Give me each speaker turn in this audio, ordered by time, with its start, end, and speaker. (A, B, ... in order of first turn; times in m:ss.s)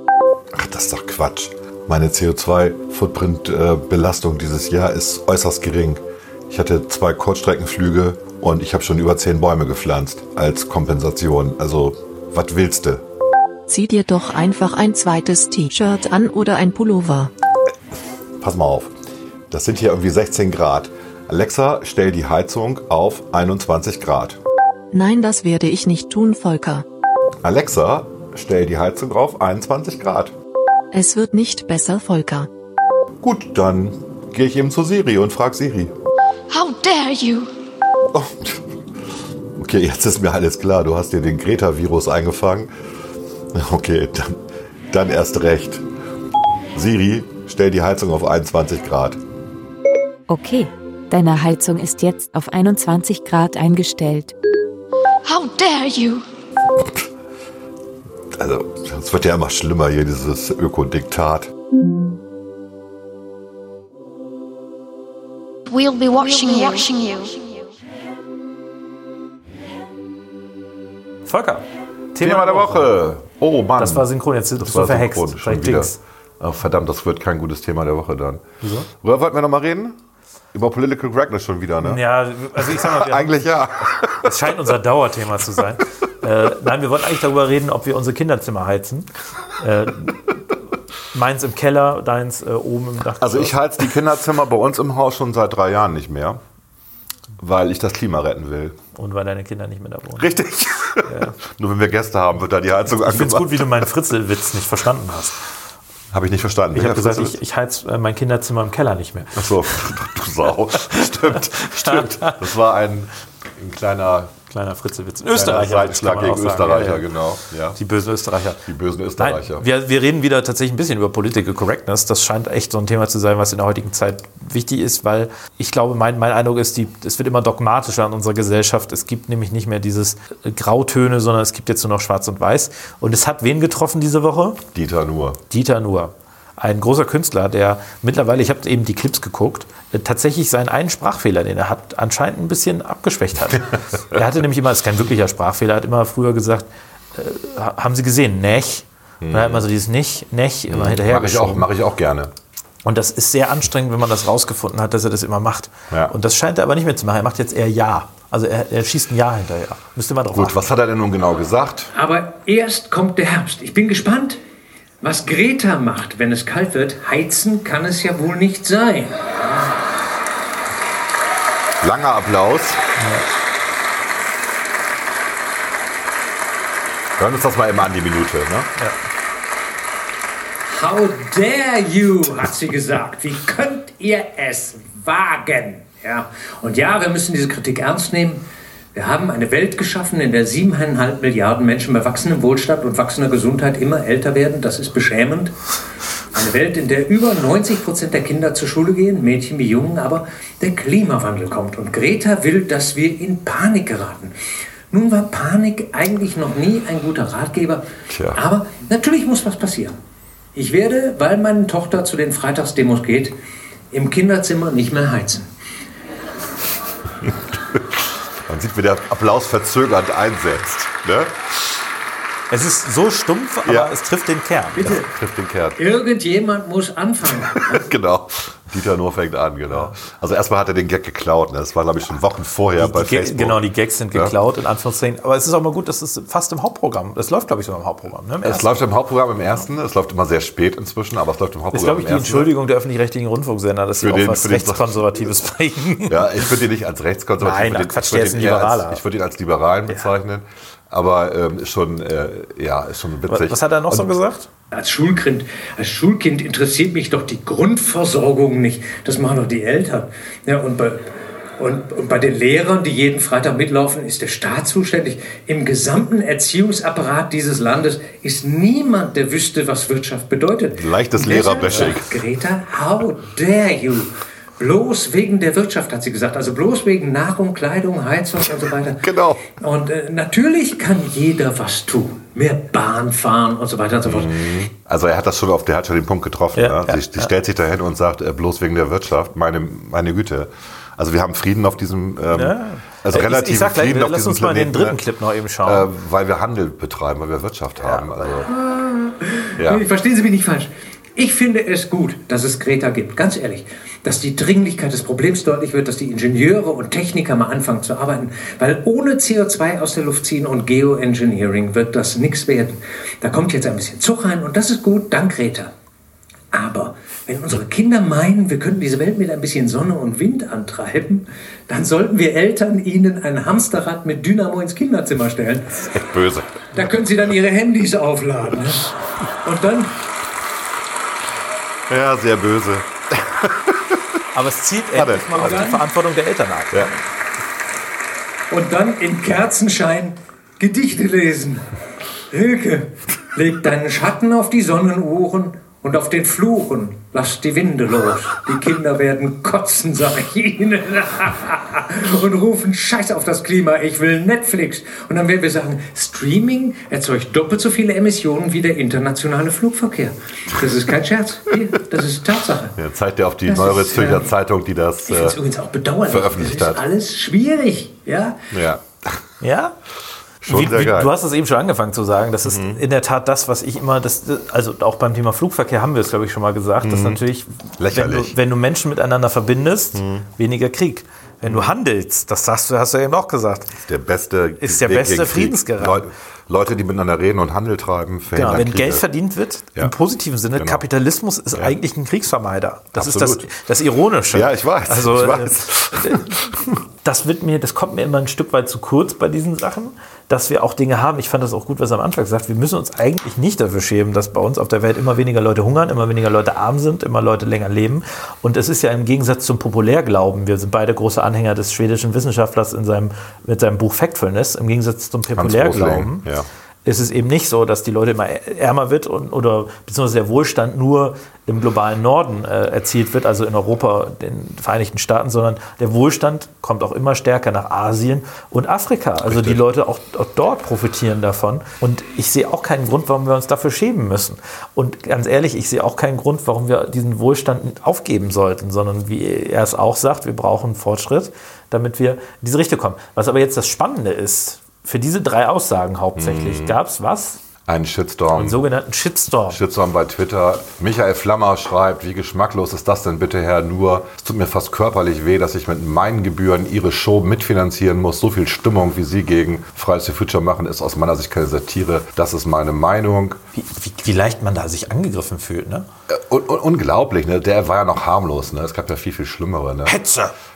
0:00.5-0:13.0 A
0:13.7-0:17.3 B
0:18.4-0:18.9 A
0:19.5-0:24.4 A
0:24.9-0:26.8 B
0:27.4-0:30.3 A
0:30.9-0:32.5 B
0:33.2-0:35.9 A
0:36.5-0:37.5 C
0:38.1-0:38.6 A
0:39.6-0:42.7 A
0:43.5-0:44.4 A
0:44.9-0:45.8 A
0:46.8-0:49.2 A
0:50.3-0:54.3 D
0:55.2-0:56.2 C
0:58.3-1:01.5 A
1:05.7-1:07.5 C
1:11.3-1:12.9 E
1:12.2-1:20.0 A
1:13.8-1:16.0 E
1:18.6-1:18.9 E
1:20.5-1:22.0 A
1:21.8-1:23.4 E
1:22.5-1:24.6 A
1:24.2-1:30.3 E
1:31.1-1:33.9 E
1:33.2-1:36.4 A
1:37.4-1:38.8 A
1:39.0-1:40.3 E
1:40.2-1:43.9 A
1:41.0-1:41.4 E
1:42.9-1:45.4 E
1:46.1-1:47.4 A
1:46.7-1:49.5 E
1:49.4-1:54.3 A
1:51.3-1:52.4 E
1:54.5-1:57.1 E
1:55.3-1:57.8 A
1:57.8-1:58.6 E
1:58.6-1:59.7 A
1:59.2-2:14.6 E
2:14.7-2:15.4 A
2:15.5-2:31.7 E
2:29.2-2:29.6 A
2:30.7-2:32.3 A
2:32.8-2:40.6 E
2:40.3-2:41.9 A
2:42.0-2:44.4 F
2:45.0-2:49.8 F
2:51.8-2:52.8 A
2:53.0-2:53.3 E
2:57.2-2:58.7 A
3:00.7-3:08.4 F
3:09.0-3:15.5 F
3:16.3-3:24.4 F
3:24.9-3:30.0 F
3:28.1-3:28.4 A
3:30.6-3:33.4 F
3:33.9-3:35.5 F
3:37.7-3:41.8 A
3:42.5-3:45.0 E
3:43.6-3:44.0 A
3:44.8-3:45.1 F
3:44.8-3:45.8 A
3:45.8-3:47.9 F
3:47.5-3:54.4 A
3:52.8-3:58.8 E
3:58.4-4:02.5 A
4:01.7-4:06.4 E
4:04.0-4:05.2 A
4:06.1-4:14.2 A
4:07.4-4:09.0 E
4:13.3-4:14.5 E
4:14.7-4:44.6 F
4:30.8-4:32.2 A
4:31.7-4:31.9 E
4:39.0-4:39.5 A
4:44.0-4:55.0 A
4:46.6-4:47.3 E
4:52.3-4:55.9 E
4:55.6-4:58.5 A
4:57.8-4:58.1 E
4:58.5-5:15.7 F
4:59.6-4:59.8 A
5:16.5-5:26.0 F
5:25.8-5:26.8 A
5:26.7-5:30.0 F
5:31.9-5:34.0 A
5:34.3-5:36.9 E
5:34.9-5:35.6 A
5:35.3-5:35.8 F
5:38.5-5:41.8 F
5:42.3-6:02.8 F
6:02.8-6:05.4 A
6:03.5-6:04.3 F
6:05.1-6:08.5 F
6:06.1-6:06.8 A
6:08.5-6:09.3 A
6:09.4-6:09.8 E
6:10.4-6:11.1 A
6:10.5-6:23.8 E
6:12.4-6:12.8 A
6:16.8-6:17.2 A
6:17.8-6:18.3 A
6:19.9-6:20.3 A
6:21.5-6:21.7 A
6:23.7-6:29.1 A
6:24.6-6:26.1 E
6:28.3-6:36.3 E
6:30.6-6:30.8 A
6:32.9-6:33.5 A
6:34.3-6:36.8 A
6:37.0-6:56.3 E
6:55.4-6:56.5 A
6:56.8-7:27.4 E
7:09.2-7:09.6 A
7:26.2-7:26.8 A
7:27.7-7:28.6 A
7:28.4-7:29.6 E
7:29.5-7:43.4 A
7:43.6-7:45.9 E
7:46.1-7:50.0 A
7:49.9-7:50.3 E